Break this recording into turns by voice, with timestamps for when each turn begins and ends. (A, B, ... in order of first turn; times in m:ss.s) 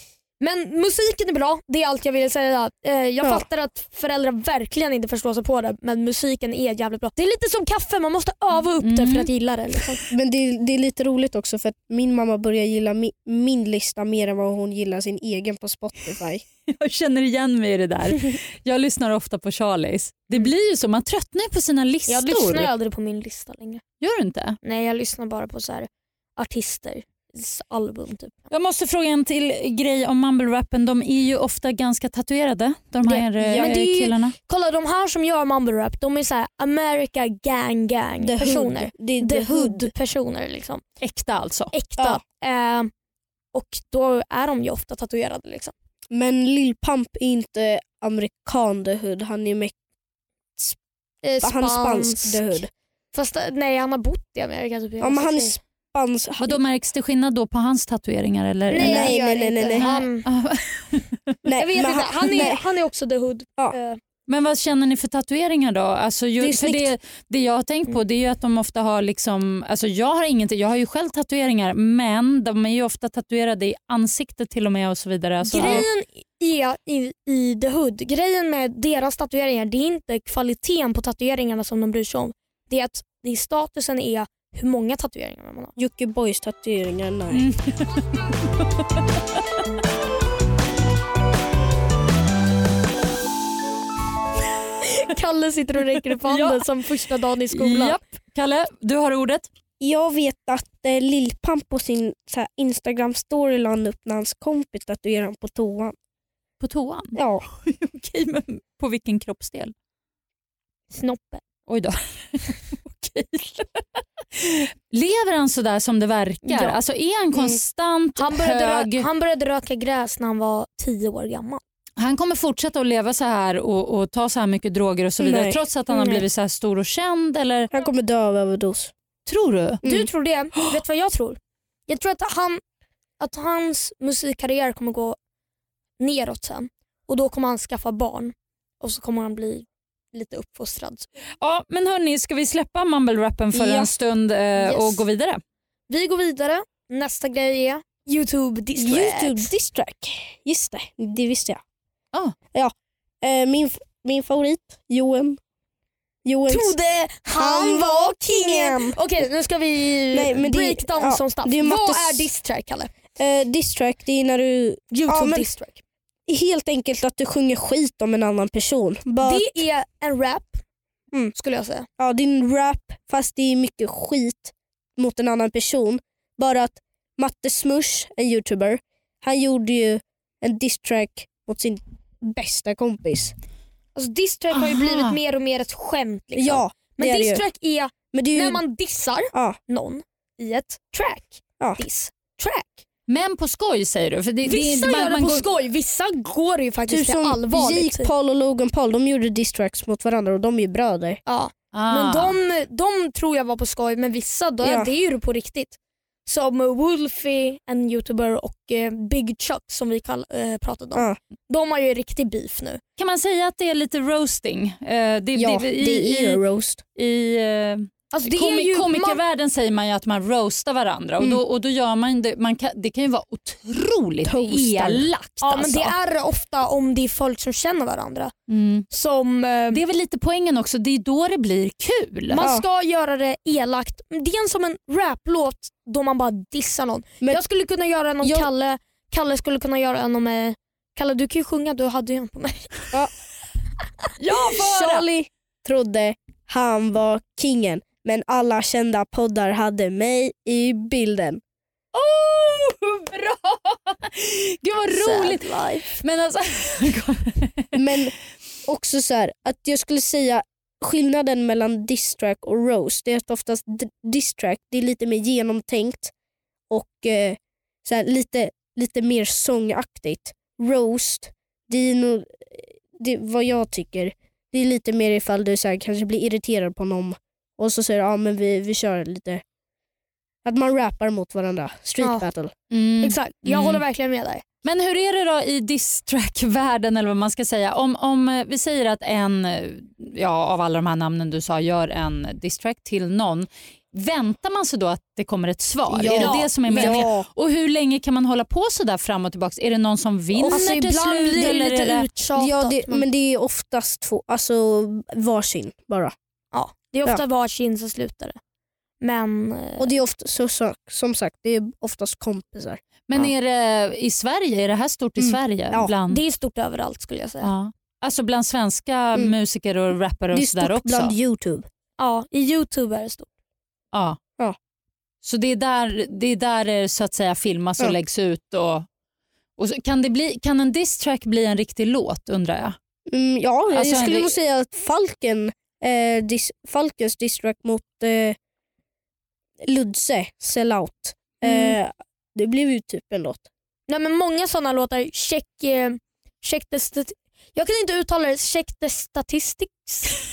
0:00.4-0:10.0 A
0:08.8-0:09.3 B
0:10.1-0:16.4 C
0:16.7-0:22.7 B
0:22.1-0:23.8 A
0:24.0-0:24.6 B
0:24.6-0:28.5 A
0:28.5-0:34.3 B
0:33.0-0:40.8 A
0:33.4-0:33.7 C
0:38.2-0:39.9 C
0:41.0-0:41.7 B
0:41.7-0:42.9 A
0:43.5-0:45.7 A
0:46.1-0:49.7 C
0:51.2-0:52.6 A
0:51.4-0:52.7 C
0:53.1-0:55.6 A
0:55.0-0:56.6 C
0:56.4-0:59.1 B
0:58.7-1:00.2 A
0:58.7-0:59.8 C
0:59.8-1:01.4 B
1:01.4-1:02.6 C
1:01.6-1:04.0 A
1:04.3-1:15.8 B
1:06.4-1:06.9 C
1:15.5-1:25.7 A
1:15.5-1:15.9 C
1:25.8-1:27.4 C
1:27.3-1:28.2 B
1:34.8-1:38.0 A
1:36.3-1:36.6 B
1:37.5-1:39.5 B
1:39.8-1:45.9 C
1:46.6-1:49.7 B
1:47.1-1:47.4 C
1:50.9-1:51.4 A
1:51.7-1:53.8 B
1:54.3-1:59.1 B
1:56.4-1:56.8 A
1:57.3-1:57.6 C
1:58.2-2:01.6 A
2:02.0-2:07.7 B
2:05.2-2:05.6 C
2:05.9-2:06.2 A
2:07.7-2:08.9 C
2:09.2-2:09.8 B
2:09.8-2:10.1 C
2:09.8-2:12.6 A
2:13.2-2:15.2 A
2:16.0-2:21.1 A
2:21.4-2:25.4 B
2:23.5-2:23.9 C
2:24.6-2:25.0 A
2:25.9-2:29.5 A
2:28.8-2:31.6 C
2:32.5-2:35.4 C
2:36.2-2:36.7 C
2:36.5-2:42.9 A
2:37.3-2:39.0 C
2:40.1-2:42.3 C
2:43.2-2:45.5 C
2:44.9-2:45.8 A
2:46.3-2:49.6 C
2:49.2-2:50.6 A
2:51.3-2:51.9 A
2:52.0-3:03.3 C
3:03.9-3:12.8 A
3:04.5-3:05.2 B
3:06.3-3:07.4 C
3:08.1-3:08.6 C
3:13.1-3:15.5 B
3:14.4-3:18.1 A
3:16.9-3:21.2 C
3:21.2-3:32.8 A
3:21.7-3:22.4 B
3:24.6-3:24.9 C
3:33.0-3:36.4 B
3:35.3-3:36.8 C
3:36.9-3:45.9 B
3:38.1-3:39.2 A
3:44.2-3:45.1 C
3:45.4-3:48.3 A
3:48.5-3:48.9 B
3:48.9-3:49.8 A
3:49.7-3:52.4 B
3:52.3-4:02.9 A
3:58.2-3:58.5 C
4:04.2-4:05.1 B
4:04.5-4:11.4 C
4:11.9-4:17.7 B
4:14.9-4:16.0 A
4:17.7-4:26.1 C
4:26.7-4:39.4 C
4:40.4-4:42.5 C
4:42.0-4:42.3 A
4:42.7-4:43.8 B
4:43.0-4:44.4 A
4:44.6-5:02.1 B
4:55.9-4:57.3 C
4:56.0-4:57.1 A
5:00.3-5:00.7 C
5:00.5-5:03.0 A
5:01.4-5:01.6 C
5:02.3-5:06.1 C
5:06.5-5:08.4 A
5:09.0-5:10.0 A
5:09.8-5:13.3 C
5:13.1-5:16.2 B
5:15.2-5:15.9 C
5:16.1-5:17.5 A
5:17.4-5:21.1 B
5:20.3-5:21.6 C
5:22.0-5:23.3 A
5:23.9-5:24.2 B
5:25.2-5:28.9 B
5:29.6-5:32.8 B
5:33.1-5:38.4 C
5:33.7-5:34.3 B
5:39.6-5:43.5 C
5:41.4-5:41.8 A
5:43.9-5:50.1 A